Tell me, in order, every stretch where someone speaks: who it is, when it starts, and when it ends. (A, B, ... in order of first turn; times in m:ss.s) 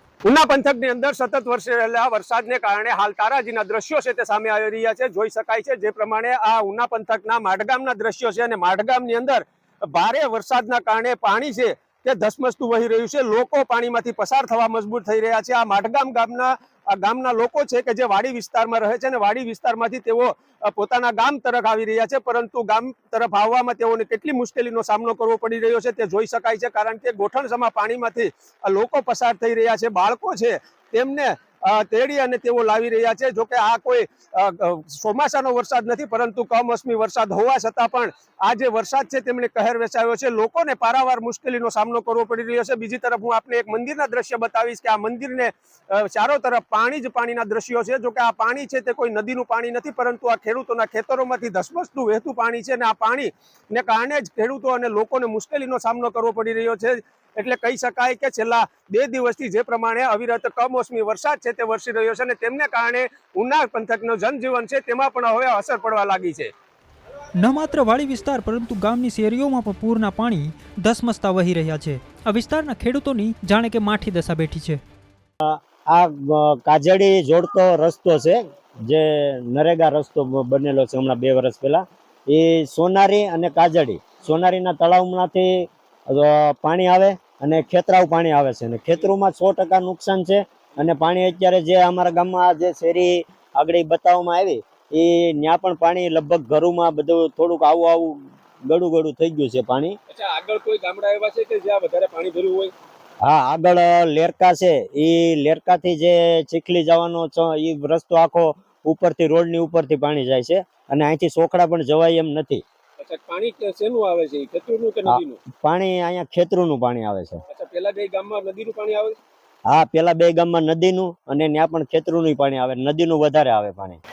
0:00.3-1:06.5 A
1:07.4-1:14.8 B
1:15.4-1:40.0 C
1:40.1-1:42.7 A
1:43.2-1:52.6 C
1:53.0-1:55.4 A
1:55.1-1:57.4 C
1:57.5-1:59.2 A
1:59.7-2:04.0 C